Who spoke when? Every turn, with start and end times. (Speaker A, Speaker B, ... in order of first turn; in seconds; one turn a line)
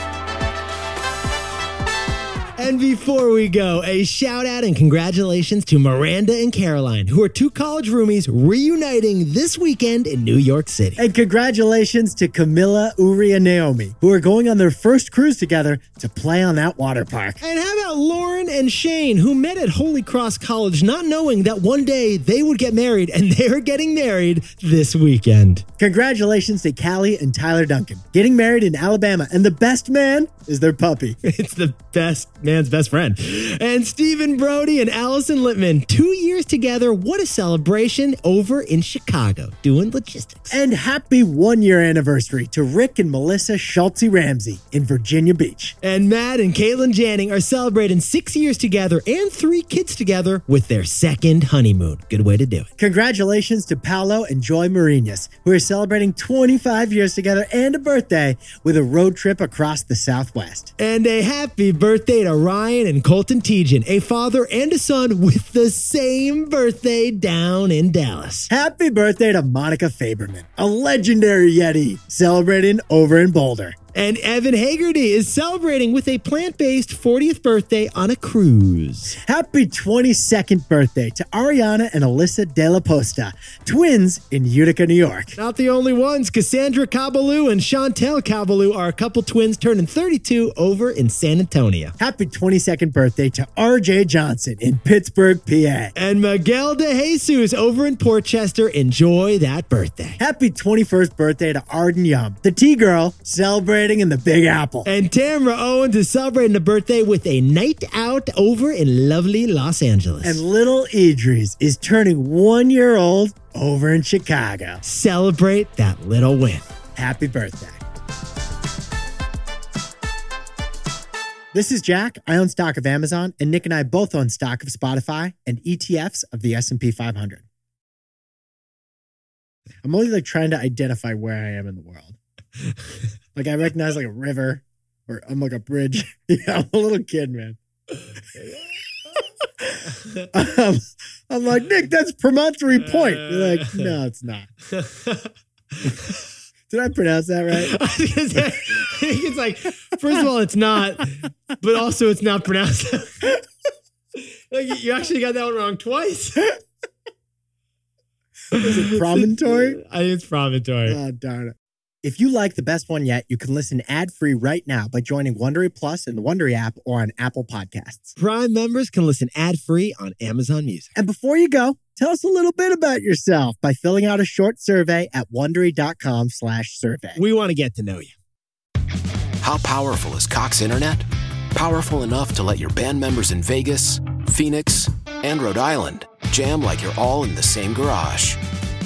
Speaker A: 2.6-11.0
Speaker B: 11.0-17.4
Speaker A: 17.4-25.6
Speaker B: 25.8-31.2
Speaker A: 31.2-40.6
Speaker B: 40.5-45.8
Speaker A: 45.8-52.7
Speaker B: 52.8-60.7
Speaker A: 60.8-68.5
Speaker B: 68.5-73.8
Speaker A: 73.9-79.1
Speaker B: 79.2-85.3
Speaker A: 85.4-91.9
Speaker B: 92.0-95.9
Speaker A: 96.0-100.2
Speaker B: 100.2-104.9
Speaker A: 104.8-110.4
Speaker B: 110.2-114.8
Speaker A: 114.8-116.6
Speaker B: 117.0-117.8
Speaker B: 121.5-127.4
Speaker B: 129.8-132.2
Speaker B: 133.3-137.6
Speaker B: 140.3-144.5
Speaker A: 142.9-143.9
Speaker A: 144.7-145.3
Speaker A: 145.8-146.1
Speaker B: 146.7-147.7
Speaker A: 147.5-153.3
Speaker A: 154.2-156.6
Speaker B: 158.5-159.8
Speaker A: 158.5-161.0
Speaker B: 160.9-168.1
Speaker A: 168.2-170.9
Speaker B: 170.9-177.2
Speaker A: 177.2-178.1
Speaker C: 179.4-188.4